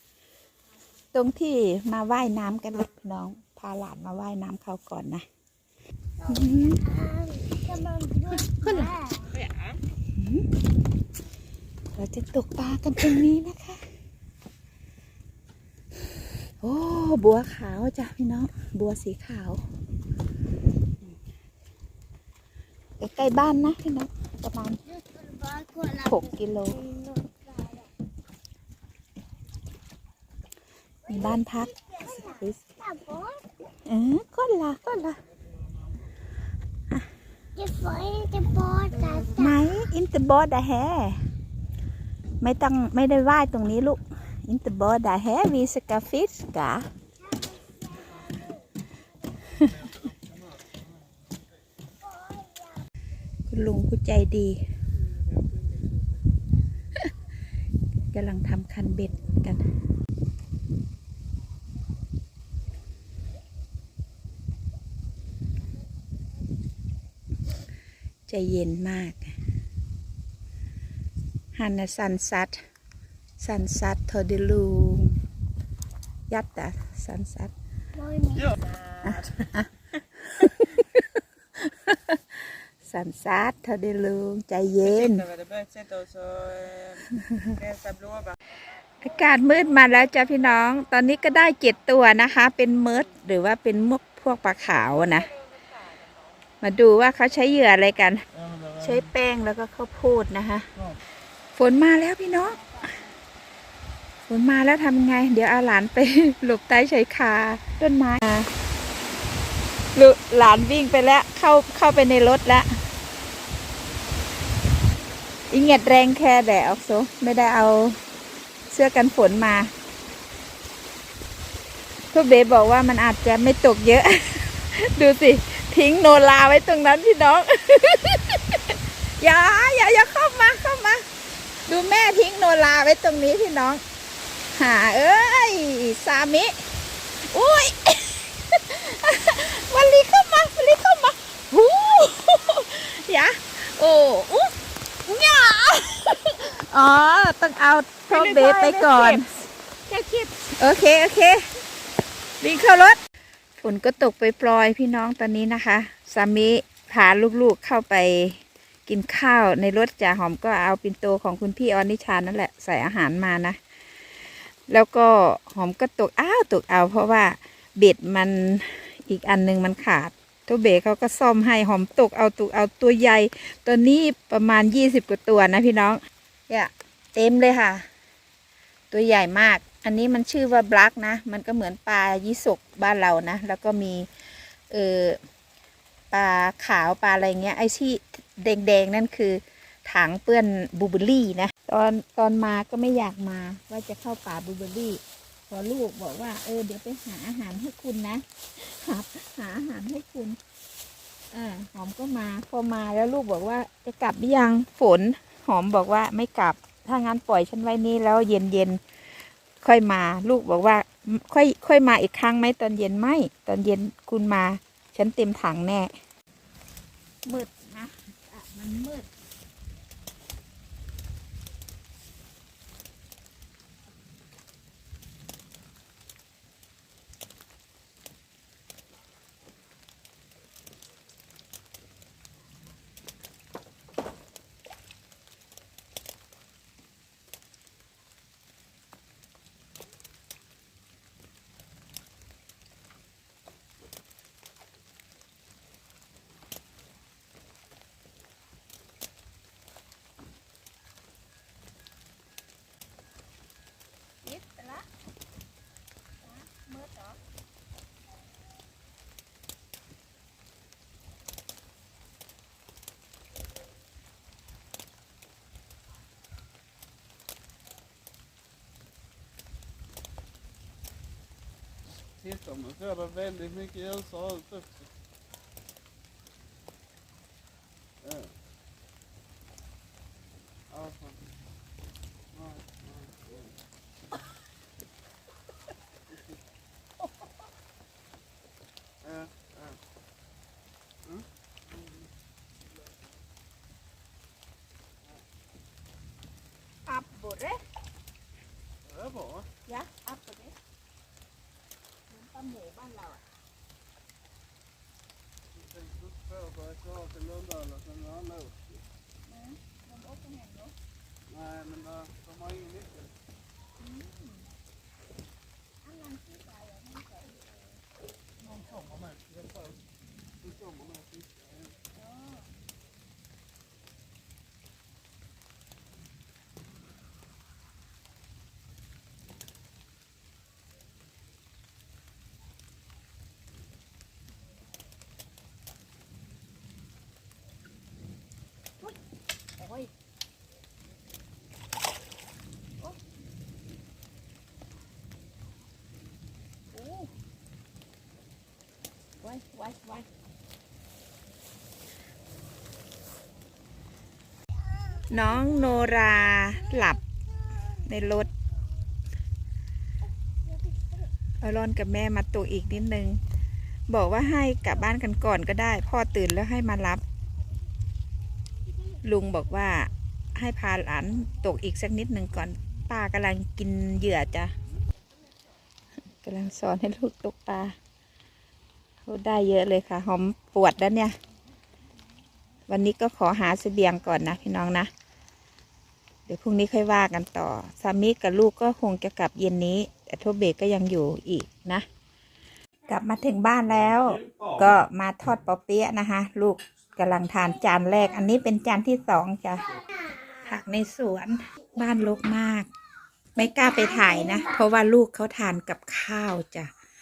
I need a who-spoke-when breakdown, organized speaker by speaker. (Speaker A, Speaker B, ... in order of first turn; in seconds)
Speaker A: 1.1-5.2, 6.3-6.8, 8.4-8.9, 10.2-10.5, 11.9-13.8, 16.6-19.6, 23.0-24.8, 26.0-26.8, 31.1-32.6, 33.9-35.2, 39.4-41.2, 42.4-46.9, 53.5-54.6, 58.1-59.6, 68.3-69.3, 71.5-72.6, 73.4-75.2, 76.3-77.5, 79.0-85.3, 87.2-87.5, 89.0-95.3, 96.6-100.7, 101.5-102.7, 104.3-108.5, 110.0-112.7, 115.5-118.0, 118.7-119.7, 122.1-131.1, 131.7-133.8, 134.6-136.6, 137.3-144.5, 145.1-149.3, 150.6-151.4, 152.4-153.0, 153.6-163.6, 164.7-176.0, 176.5-177.9, 178.9-184.1, 184.7-185.2, 186.1-200.4, 201.3-208.8, 209.6-215.9, 217.3-219.1, 254.2-254.9, 256.2-257.2, 296.9-297.6, 299.7-300.5, 302.1-303.2, 309.3-310.7, 313.8-314.3, 315.9-317.4, 339.6-339.9, 346.7-347.1, 349.2-350.1, 355.1-357.0, 357.8-358.3, 361.4-363.2, 363.9-367.0, 369.0-374.5, 376.2-377.8, 379.1-381.1, 382.7-384.9, 386.3-391.9, 392.9-399.6, 400.4-402.7, 403.4-406.7
Speaker B: 6.2-9.3, 24.9-27.9, 31.1-33.4, 37.6-39.6, 47.3-48.5, 52.2-52.5, 78.0-78.5, 403.8-404.4
Speaker C: 9.3-9.8, 148.1-149.2, 149.9-150.4
Speaker D: 85.0-87.0, 87.6-88.3, 306.6-308.5, 311.4-312.8